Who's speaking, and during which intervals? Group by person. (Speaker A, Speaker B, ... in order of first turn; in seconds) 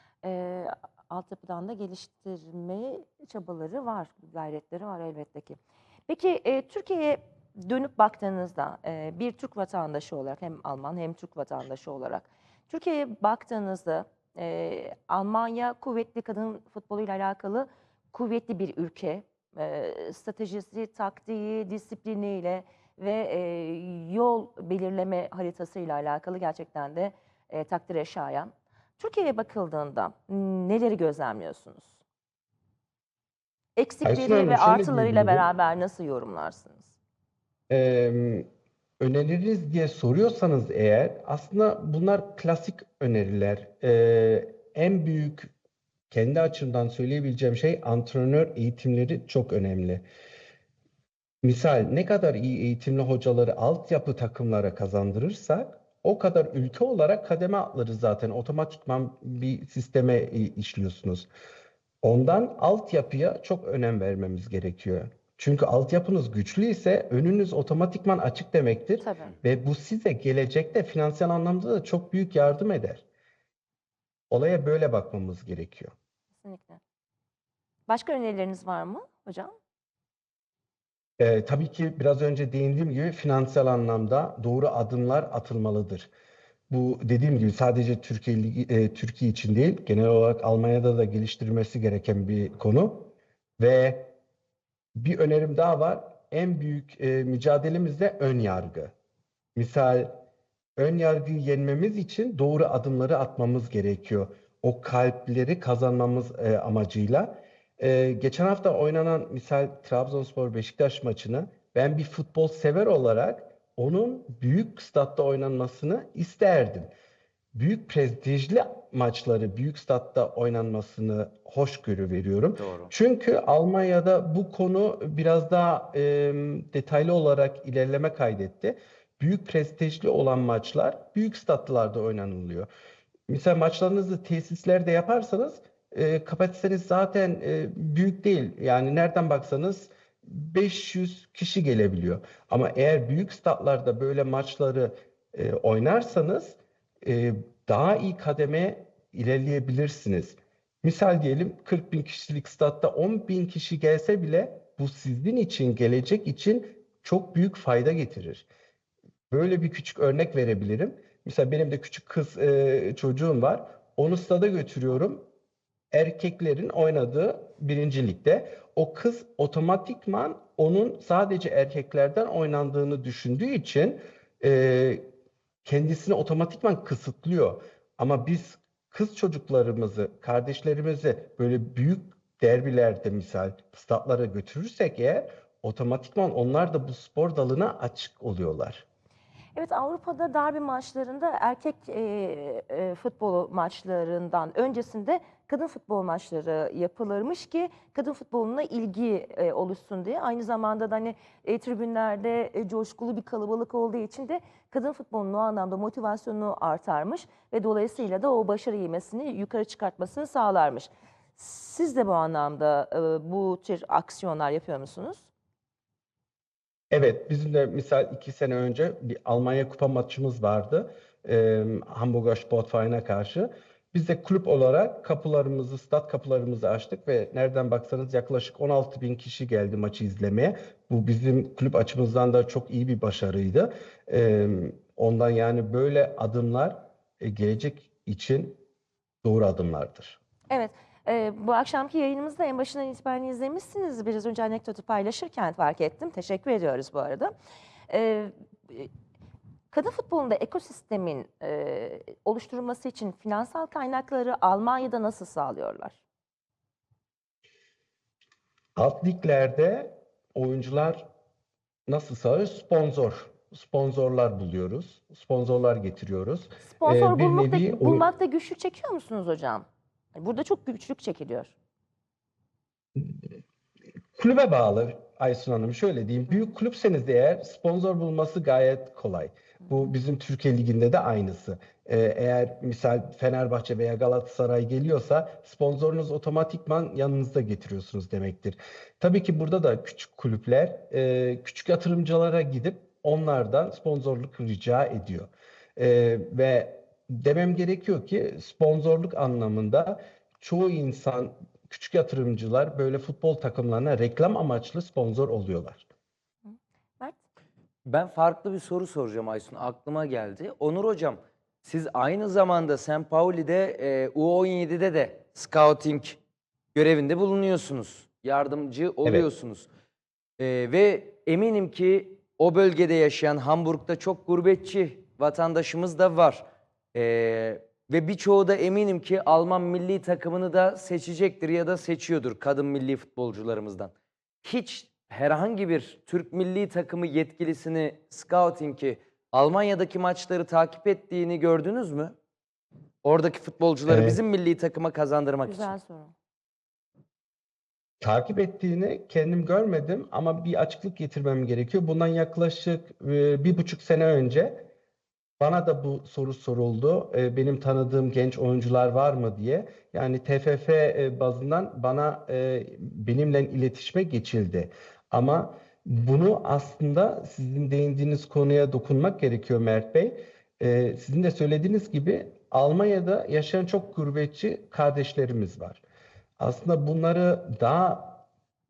Speaker A: 0.2-32.0, 33.8-36.9, 69.0-69.3, 76.4-76.8, 77.9-79.5, 189.6-215.3, 240.5-247.3, 247.9-248.9, 249.7-256.0, 266.8-271.5, 306.5-307.2, 345.5-346.1
Speaker B: 34.0-35.5, 37.7-38.5, 39.0-45.5, 46.1-50.0, 51.4-61.3, 62.0-73.0, 74.3-75.9, 81.2-86.1, 86.7-94.1, 95.0-98.9, 99.5-100.1, 100.8-116.9, 117.5-132.7, 133.3-158.5, 159.3-165.2, 165.9-175.1, 175.6-188.8, 216.9-238.6, 239.2-240.2, 258.8-261.1, 261.9-268.1, 272.9-273.2, 274.1-305.9, 343.9-344.2, 348.0-354.7, 355.4-375.8, 376.4-378.2
Speaker C: 122.6-122.9, 307.9-316.2, 316.7-319.7, 320.4-333.9, 334.4-342.1, 343.0-345.7